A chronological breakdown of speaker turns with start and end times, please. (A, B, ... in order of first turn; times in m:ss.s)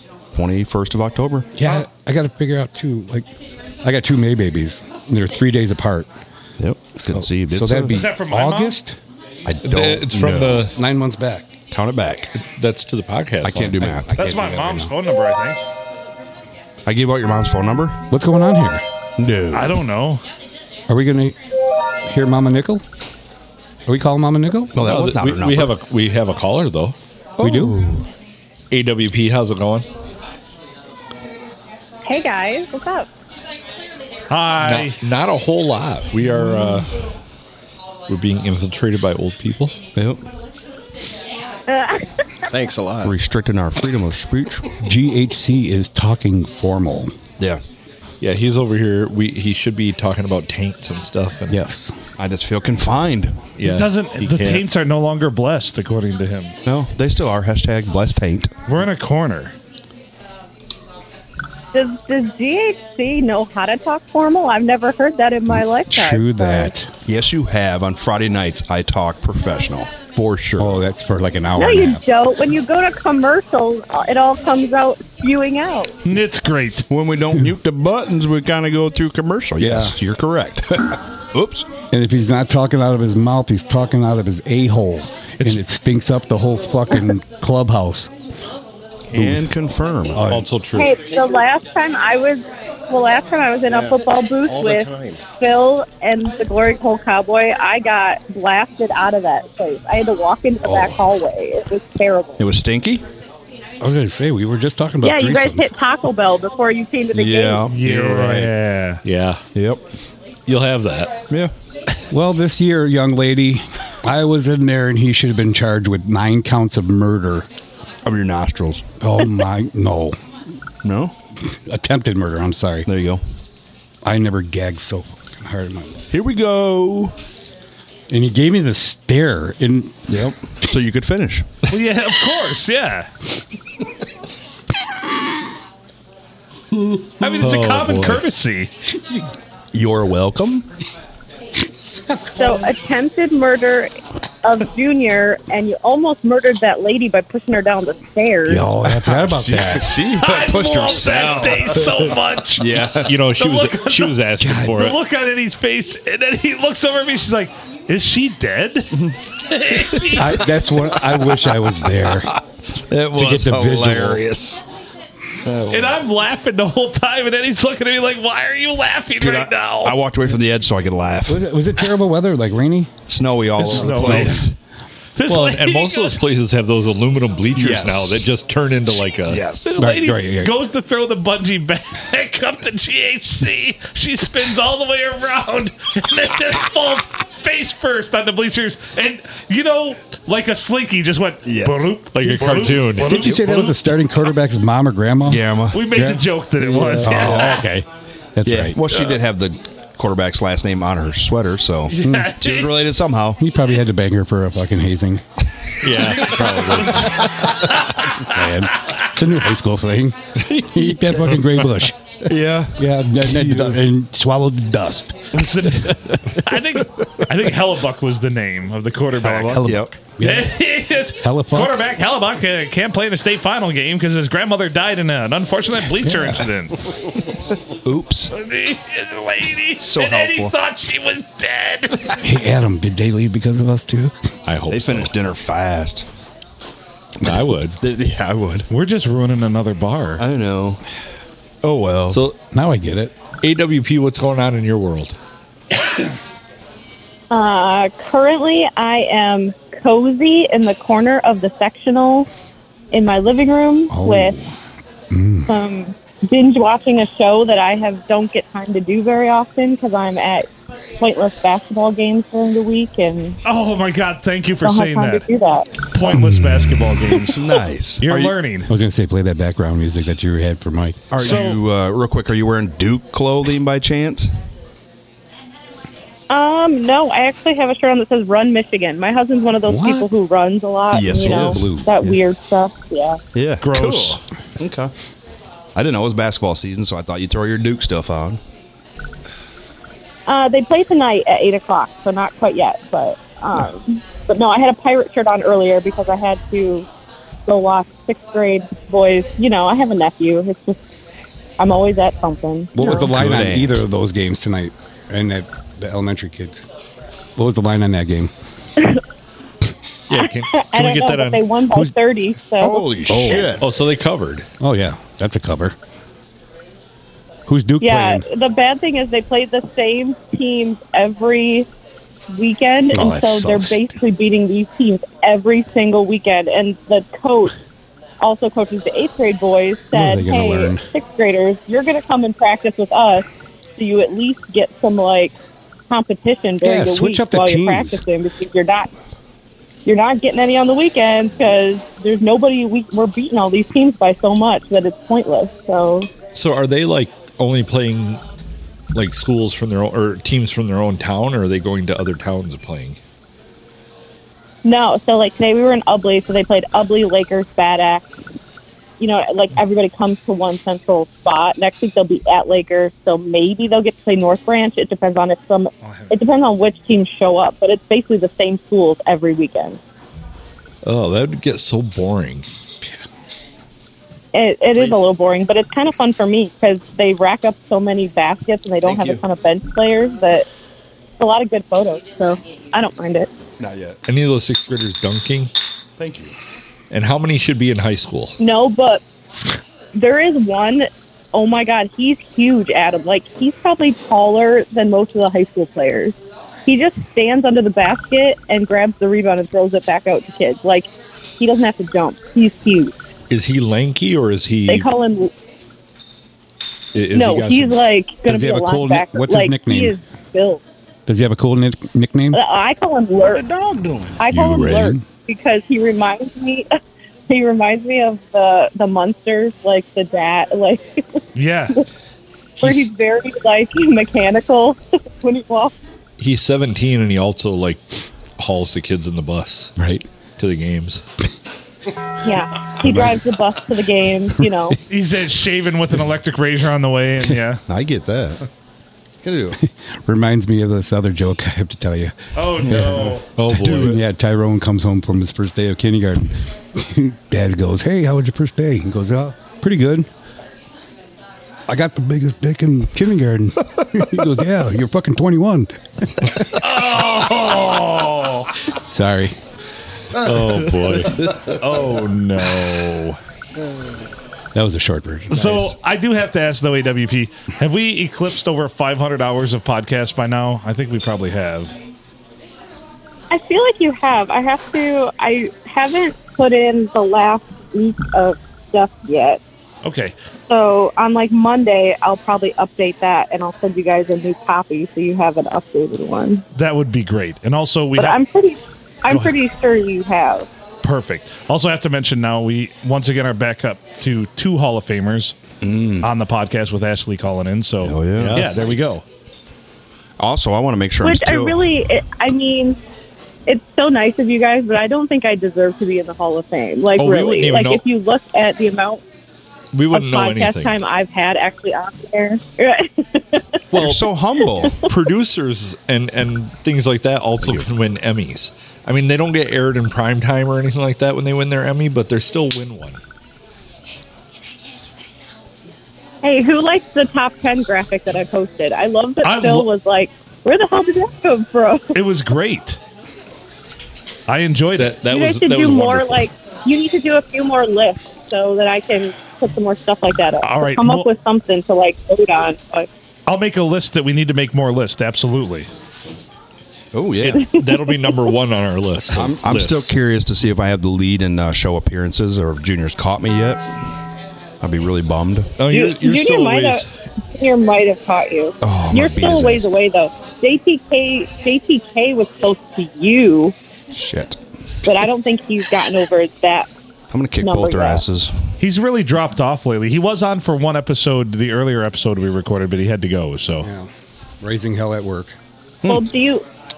0:00.3-0:01.6 A
0:01.6-0:03.3 B
0:03.8-0:06.1 B
0:06.6-0:08.0 A
0:07.1-0:09.0 B
0:07.9-0:08.8 C
0:09.4-0:10.7 A
0:09.6-0:10.7 D
0:10.7-0:11.5 B
0:11.7-0:12.3 A
0:12.4-0:13.9 D
0:13.4-0:14.1 A
0:13.7-0:14.9 B
0:14.2-0:15.6 C
0:16.8-0:18.0 A
0:18.1-0:18.8 B
0:19.2-0:19.8 A
0:19.5-0:20.2 C
0:20.9-0:21.3 B
0:22.0-0:22.8 B
0:23.9-0:24.8 B
0:24.7-0:25.7 A
0:24.8-0:27.0 D
0:27.4-0:28.0 A
0:27.4-0:27.8 B
0:28.7-0:29.9 D
0:32.0-0:33.1 E
0:34.3-0:35.0 C
0:34.6-0:36.9 D
0:36.3-0:36.7 A
0:38.1-0:39.7 D
0:39.9-0:40.2 A
0:41.7-0:42.1 E
0:42.5-0:43.1 F
0:43.0-0:44.7 A
0:44.8-0:47.1 B
0:48.2-0:51.6 D
0:51.5-0:51.9 B
0:52.2-0:53.4 A
0:53.6-0:54.6 D
0:53.6-0:56.5 C
0:56.6-0:58.5 A
0:58.7-0:59.5 C
1:01.7-1:06.7 E
1:05.8-1:06.9 B
1:07.0-1:10.8 A
1:10.6-1:12.0 B
1:11.6-1:15.9 E
1:16.0-1:16.8 C
1:16.9-1:21.7 A
1:19.6-1:20.0 B
1:21.9-1:28.1 B
1:29.1-1:30.3 A
1:29.1-1:29.4 B
1:30.1-1:30.5 B
1:30.3-1:31.0 D
1:30.7-1:42.4 E
1:33.7-1:35.2 F
1:40.6-1:41.0 B
1:42.4-1:43.0 A
1:43.8-1:45.7 B
1:45.0-1:47.6 E
1:47.1-1:48.5 A
1:47.6-1:49.0 C
1:49.0-1:49.4 D
1:49.5-1:49.8 A
1:50.5-1:51.1 D
1:52.1-1:57.5 B
1:58.0-1:58.8 A
1:59.0-2:00.2 B
2:00.8-2:01.1 A
2:01.5-2:02.9 B
2:02.8-2:03.2 A
2:04.0-2:06.0 B
2:06.1-2:07.1 A
2:08.1-2:10.0 B
2:10.1-2:11.6 A
2:11.7-2:13.1 C
2:17.2-2:18.7 C
2:17.4-2:18.2 D
2:19.7-2:20.6 A
2:22.4-2:28.7 E
2:28.5-2:29.9 B
2:28.8-2:33.2 A
2:30.2-2:40.4 C
2:33.0-2:35.0 D
2:34.4-2:34.8 B
2:39.7-2:40.2 A
2:40.2-2:42.3 B
2:42.7-2:44.6 A
2:43.1-2:44.2 B
2:45.4-2:46.0 A
2:45.7-2:50.0 C
2:49.2-2:51.5 A
2:51.3-2:52.9 B
2:53.1-2:54.5 A
2:53.6-2:54.5 C
2:53.6-2:54.4 B
2:55.2-2:56.2 C
2:55.3-2:59.4 D
2:57.5-2:58.3 A
2:59.2-2:59.8 A
2:59.6-3:13.8 C
2:59.8-3:00.5 B
3:11.4-3:11.9 A
3:12.1-3:13.3 D
3:13.0-3:16.2 B
3:15.2-3:15.8 A
3:15.7-3:17.6 C
3:16.6-3:17.6 A
3:17.0-3:18.8 B
3:18.4-3:23.4 A
3:21.9-3:22.7 C
3:22.0-3:22.3 B
3:23.4-3:25.2 B
3:25.8-3:26.8 D
3:26.1-3:29.0 C
3:26.4-3:32.0 B
3:26.4-3:26.9 A
3:30.4-3:31.2 A
3:32.2-3:33.8 A
3:32.8-3:36.1 B
3:35.3-3:39.6 C
3:39.2-3:39.9 A
3:39.5-3:40.5 B
3:40.2-3:46.8 C
3:41.2-3:41.8 B
3:46.0-3:46.4 B
3:47.7-3:48.3 A
3:48.3-3:52.2 C
3:49.8-3:50.5 A
3:52.2-3:54.1 B
3:54.4-3:55.1 D
3:54.7-3:56.0 A
3:57.2-3:57.8 D
3:57.2-3:58.7 A
3:58.7-4:00.2 C
4:00.2-4:00.8 A
4:01.6-4:02.2 A
4:02.1-4:02.4 D
4:02.5-4:03.1 B
4:03.4-4:05.2 D
4:07.3-4:12.3 E
4:12.9-4:14.4 E
4:13.9-4:14.5 B
4:15.1-4:15.5 B
4:15.5-4:20.5 E
4:21.0-4:23.4 E
4:23.4-4:25.2 C
4:24.6-4:25.7 E
4:25.9-4:27.4 C
4:26.1-4:26.9 B
4:27.3-4:28.3 A
4:28.0-4:28.7 C
4:28.7-4:31.1 B
4:31.1-4:34.3 A
4:31.2-4:31.6 C
4:36.3-4:43.2 E
4:39.7-4:40.1 B
4:40.9-4:42.2 A
4:41.2-4:41.9 B
4:43.3-4:44.9 A
4:43.6-4:44.2 C
4:45.7-4:48.4 A
4:50.3-4:56.9 E
4:57.5-5:00.8 E
5:01.6-5:03.1 E
5:02.7-5:06.6 B
5:02.8-5:03.8 A
5:07.4-5:08.3 B
5:10.1-5:11.5 D
5:10.2-5:13.5 E
5:12.6-5:13.6 A
5:13.1-5:13.5 B
5:13.6-5:14.5 D
5:14.6-5:15.7 B
5:17.5-5:18.2 B
5:17.8-5:21.7 E
5:22.3-5:27.5 E
5:22.9-5:23.8 B
5:28.2-5:35.3 E
5:29.9-5:30.9 B
5:35.9-5:38.9 E
5:36.6-5:38.0 B
5:39.8-5:46.1 E
5:46.3-5:48.2 D
5:48.9-5:53.0 D
5:54.6-5:58.0 E
5:59.0-6:09.8 E
6:05.8-6:06.2 C
6:10.8-6:12.5 D
6:14.3-6:20.5 E
6:18.9-6:19.2 F
6:21.2-6:23.3 E
6:23.6-6:24.0 A
6:24.1-6:25.5 D
6:26.0-6:26.3 A
6:26.9-6:28.4 D
6:28.4-6:29.0 E
6:29.9-6:42.9 E
6:43.3-6:44.9 D
6:44.7-6:45.3 E
6:46.9-6:47.8 D
6:47.1-6:50.6 E
6:48.2-6:49.9 B
6:51.1-6:52.4 B
6:52.3-6:53.4 E
6:53.2-6:54.2 A
6:54.2-6:56.7 E
6:54.3-6:55.1 B
6:57.3-7:01.2 E
7:01.3-7:01.8 C
7:02.6-7:05.7 E
7:06.2-7:07.8 D
7:08.4-7:09.7 D
7:09.8-7:10.0 B
7:10.4-7:11.0 D
7:12.2-7:14.8 E
7:12.7-7:13.2 B
7:14.9-7:17.6 C
7:17.7-7:18.4 A
7:19.2-7:19.6 A
7:19.6-7:30.1 B
7:22.3-7:23.2 C
7:22.6-7:24.0 A
7:23.3-7:24.0 D
7:31.7-7:36.4 B
7:36.6-7:38.5 C
7:38.9-7:39.3 B
7:40.1-7:41.3 D
7:41.4-7:43.2 C
7:44.5-7:45.6 B
7:45.3-7:51.7 C
7:53.3-7:59.4 E
7:59.8-8:00.1 C
8:00.5-8:06.4 E
8:06.5-8:08.2 C
8:08.0-8:10.5 E
8:10.8-8:15.3 C
8:15.6-8:16.1 A
8:16.0-8:19.0 C
8:17.8-8:18.5 A
8:18.2-8:18.9 D
8:20.2-8:21.7 A
8:21.0-8:22.8 E
8:23.5-8:29.0 E
8:27.0-8:27.8 D
8:29.7-8:30.7 D
8:29.9-8:33.6 E
8:33.7-8:34.1 D
8:33.7-8:34.8 A
8:34.6-8:43.0 D
8:37.4-8:37.7 A
8:46.2-8:52.0 E
8:49.2-8:49.7 C
8:51.9-8:52.8 C
8:54.3-8:54.9 C
8:54.8-8:56.3 D
8:55.0-9:02.9 E
9:00.4-9:01.1 C
9:03.3-9:05.7 C
9:06.9-9:07.5 A
9:07.2-9:09.9 D
9:07.7-9:08.2 E
9:09.1-9:13.7 A
9:14.6-9:15.6 A
9:15.6-9:16.9 D
9:15.7-9:23.5 E
9:18.6-9:19.7 A
9:23.9-9:24.4 A
9:24.8-9:26.7 E
9:27.1-9:28.3 A
9:27.4-9:28.0 E
9:28.6-9:33.7 C
9:33.6-9:33.9 B
9:34.4-9:35.3 B
9:35.8-9:36.4 E